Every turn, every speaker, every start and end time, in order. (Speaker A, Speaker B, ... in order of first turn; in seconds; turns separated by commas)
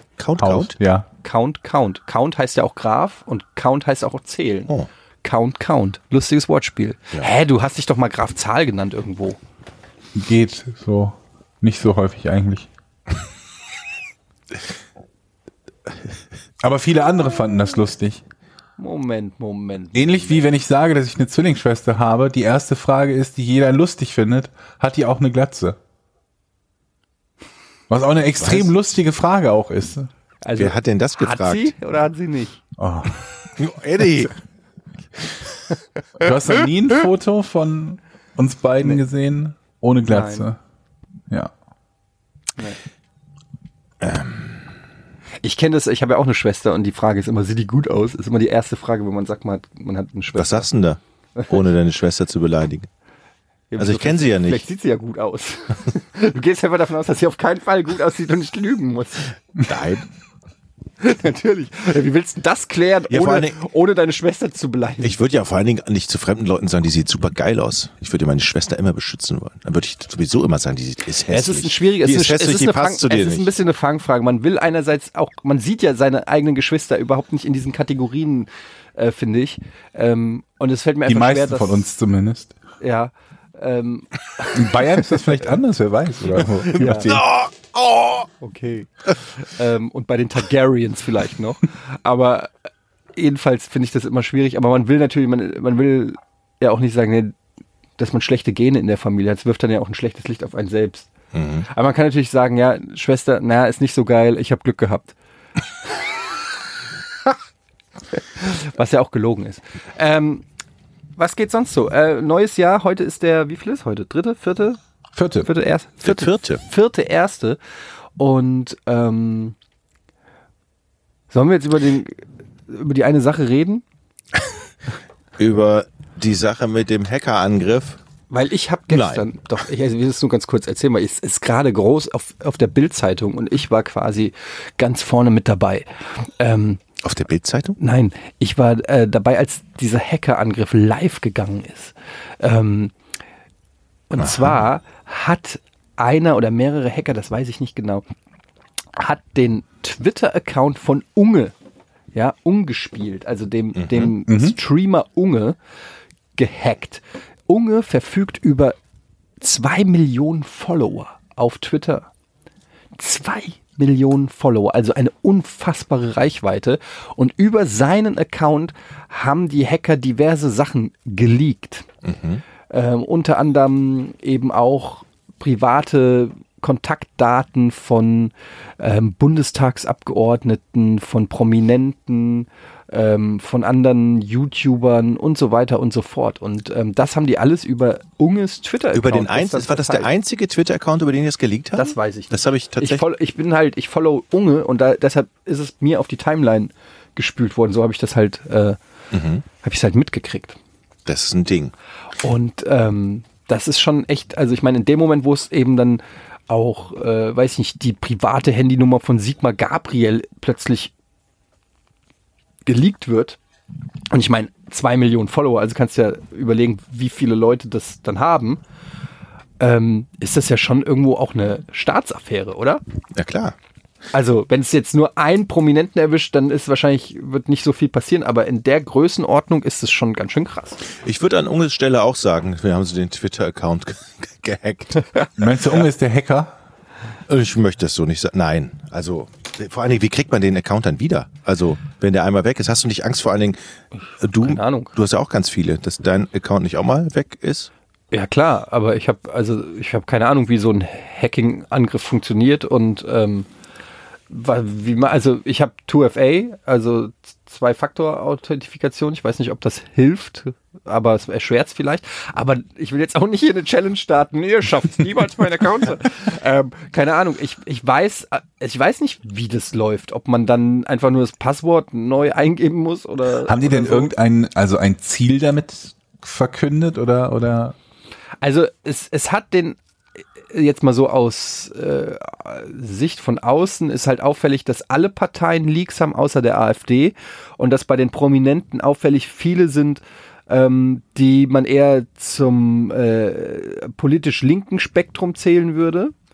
Speaker A: 0.2-0.7, Speaker B: 0.4-1.1, Speaker C: 1.2-4.7, Speaker C: 5.2-9.4, Speaker B: 10.2-12.7, Speaker B: 16.6-18.2, Speaker C: 18.8-20.5, Speaker B: 19.9-25.8, Speaker B: 27.9-30.1, Speaker A: 28.4-28.7, Speaker C: 30.4-32.6, Speaker A: 30.6-31.7, Speaker B: 32.8-33.2, Speaker A: 33.6-34.4, Speaker B: 36.2-40.6, Speaker C: 40.1-40.5, Speaker A: 44.0-44.6, Speaker C: 45.4-50.7, Speaker A: 50.4-52.9, Speaker C: 53.7-59.3, Speaker A: 53.8-54.6, Speaker A: 59.6-60.0, Speaker C: 61.0-65.2, Speaker A: 63.1-63.6, Speaker A: 65.0-73.5, Speaker C: 71.3-81.9, Speaker B: 81.1-82.5, Speaker C: 82.8-85.4, Speaker B: 84.5-87.3, Speaker C: 86.6-87.2, Speaker A: 86.8-88.3, Speaker C: 88.4-92.5, Speaker C: 93.2-97.3, Speaker C: 98.0-101.1, Speaker A: 101.3-101.7, Speaker C: 101.7-105.2, Speaker C: 108.1-110.5, Speaker C: 111.2-114.8, Speaker B: 115.2-115.5, Speaker C: 115.4-117.6, Speaker A: 116.0-116.6, Speaker C: 118.2-119.5, Speaker C: 121.3-123.8, Speaker A: 125.4-128.0, Speaker C: 128.3-136.8, Speaker A: 128.9-129.3, Speaker A: 137.0-137.8, Speaker C: 137.8-142.9, Speaker C: 144.1-148.0, Speaker A: 144.2-144.6, Speaker C: 148.9-151.6, Speaker C: 152.1-155.6, Speaker A: 153.8-154.1, Speaker B: 154.3-154.6, Speaker C: 156.4-158.8, Speaker C: 159.4-162.1, Speaker C: 163.0-171.9, Speaker A: 172.0-172.4, Speaker C: 172.7-190.1, Speaker A: 188.9-193.1, Speaker C: 191.8-198.8, Speaker A: 199.1-199.4, Speaker C: 199.6-200.6, Speaker A: 201.1-201.7, Speaker C: 202.2-210.9, Speaker C: 212.7-213.4, Speaker C: 214.1-218.6, Speaker C: 219.6-222.8, Speaker A: 223.2-223.6, Speaker C: 224.1-230.8, Speaker A: 231.0-235.1, Speaker B: 235.4-236.5, Speaker A: 237.3-243.6, Speaker A: 244.2-247.7, Speaker C: 244.4-244.9, Speaker C: 248.1-253.5, Speaker C: 254.3-274.1, Speaker B: 273.5-277.8, Speaker C: 278.4-279.8, Speaker C: 280.5-296.1